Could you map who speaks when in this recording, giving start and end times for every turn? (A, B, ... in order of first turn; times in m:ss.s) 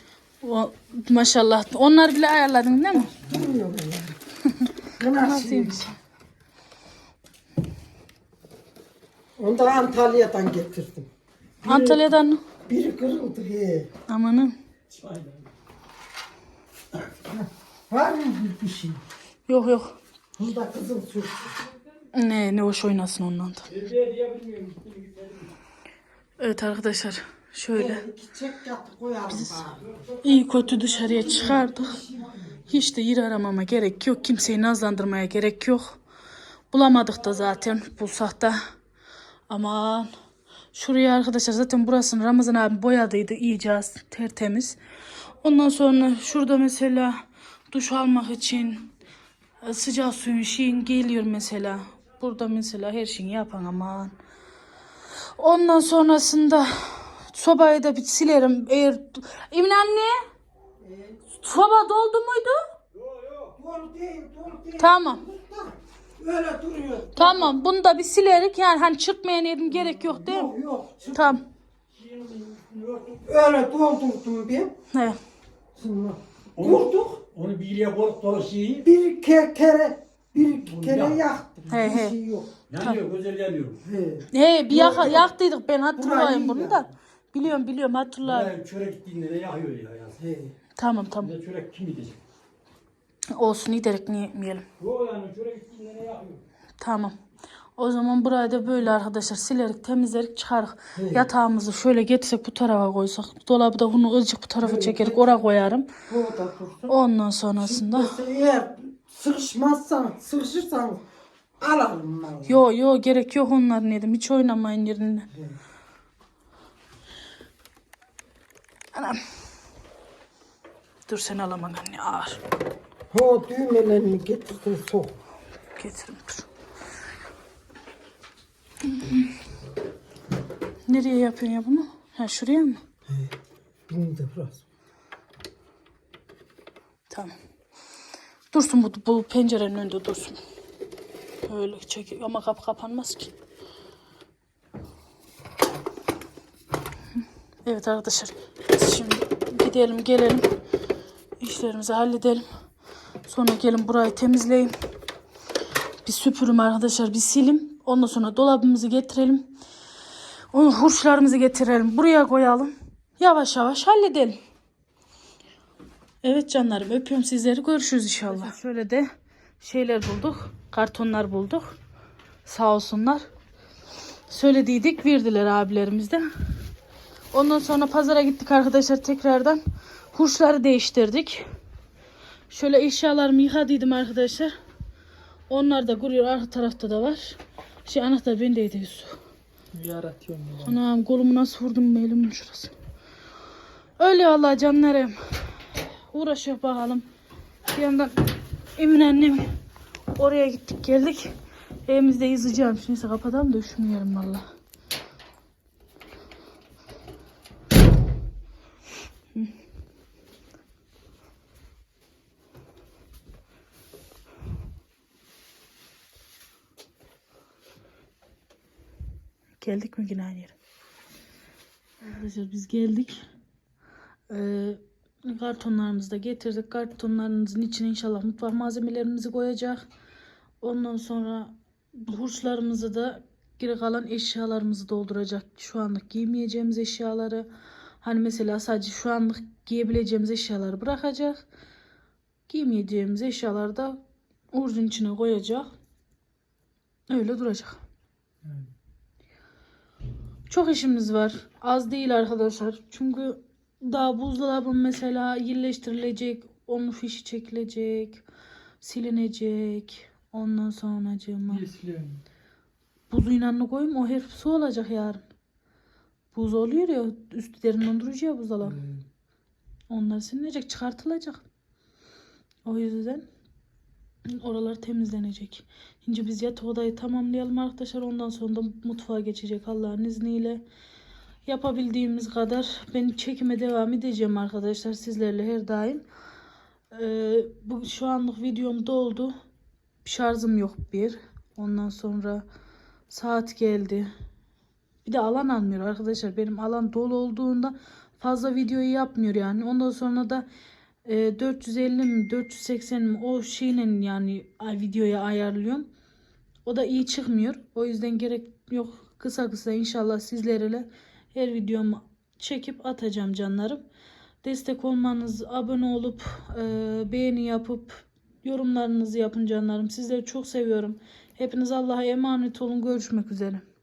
0:00.4-0:03.1 A
0:03.1-0:03.5 B
0:03.1-0:04.2 C
0:05.0-0:05.8 C
0:05.1-0:06.0 A
0:09.4-0:11.1 C
0:11.6-0:12.0 C
0:11.6-0:12.4 A
0:12.6-0:13.9 C
0:14.1-0:14.5 A
0:14.9-0:15.5 B
0:17.2-0:19.0 C
0:19.5-0:20.0 A
0:20.4-0:21.5 C
0:22.1-0:23.7 A
0:23.7-0:25.6 B
0:26.4-0:28.0 A
0:27.7-0:29.8 C
0:29.3-0:29.7 A
0:29.8-0:31.6 B
0:30.2-0:32.0 A
0:30.8-0:32.7 C
0:32.7-0:36.0 A
0:36.7-0:38.6 A
0:39.5-0:40.1 A
0:40.7-0:44.8 A
0:45.4-0:48.9 A
0:49.6-0:54.1 A
0:55.4-1:00.2 A
1:00.8-1:01.2 C
1:01.3-1:02.6 A
1:02.9-1:03.6 B
1:03.6-1:07.6 C
1:04.8-1:05.2 A
1:07.2-1:10.5 A
1:09.6-1:11.4 C
1:11.1-1:11.4 A
1:11.9-1:13.2 B
1:13.2-1:14.7 C
1:14.9-1:15.2 A
1:15.7-1:17.2 C
1:16.6-1:18.9 B
1:18.8-1:22.5 C
1:20.6-1:21.2 B
1:21.7-1:22.2 A
1:22.7-1:23.8 B
1:23.8-1:25.3 C
1:24.3-1:28.5 A
1:26.0-1:26.9 C
1:28.2-1:30.2 B
1:30.2-1:30.5 C
1:30.8-1:31.3 A
1:31.2-1:32.2 B
1:33.3-1:34.6 A
1:34.8-1:36.4 B
1:36.8-1:37.1 A
1:37.8-1:45.9 A
1:40.9-1:41.3 C
1:44.6-1:45.5 C
1:46.1-1:46.9 C
1:46.9-1:48.2 A
1:47.6-1:51.0 C
1:51.6-1:52.6 C
1:52.5-1:55.3 A
1:55.3-1:55.6 C
1:58.9-1:59.2 A
2:01.1-2:02.4 A
2:03.1-2:05.2 C
2:05.7-2:06.5 A
2:08.8-2:09.3 A
2:10.9-2:12.8 A
2:13.1-2:13.3 C
2:13.9-2:14.6 C
2:18.5-2:20.4 A
2:21.4-2:23.3 A
2:27.6-2:30.4 A
2:31.4-2:32.4 A
2:33.2-2:34.7 A
2:36.0-2:39.5 A
2:40.5-2:44.4 A
2:46.2-2:49.1 A
2:49.6-2:51.7 A
2:52.4-2:53.2 A
2:54.3-2:56.2 A
2:57.3-2:59.6 A
3:00.1-3:01.5 A
3:02.5-3:04.5 A
3:05.5-3:09.2 A
3:09.7-3:10.8 D
3:10.6-3:12.7 A
3:14.0-3:15.2 A
3:16.1-3:17.0 A
3:17.7-3:18.2 A
3:18.8-3:19.5 A
3:20.1-3:21.4 A
3:21.9-3:24.4 A
3:39.6-3:40.5 A
3:42.0-3:43.2 A
3:44.3-3:49.8 A
3:50.6-3:57.5 A
3:58.0-4:01.4 A
4:02.5-4:04.0 A
4:04.5-4:05.7 A
4:07.1-4:07.8 A
4:08.4-4:08.7 D
4:10.5-4:18.2 A
4:18.8-4:21.6 A
4:21.5-4:22.2 D
4:23.1-4:25.2 A
4:26.3-4:28.8 A
4:28.6-4:29.0 D
4:29.9-4:31.4 A
4:32.6-4:33.3 A
4:34.2-4:40.6 A
4:41.4-4:46.0 A
4:46.9-4:49.4 A
4:50.0-4:52.4 A
4:53.1-4:54.1 A
4:55.0-5:00.5 A
5:01.0-5:05.9 A
5:06.6-5:13.8 A
5:14.4-5:23.6 A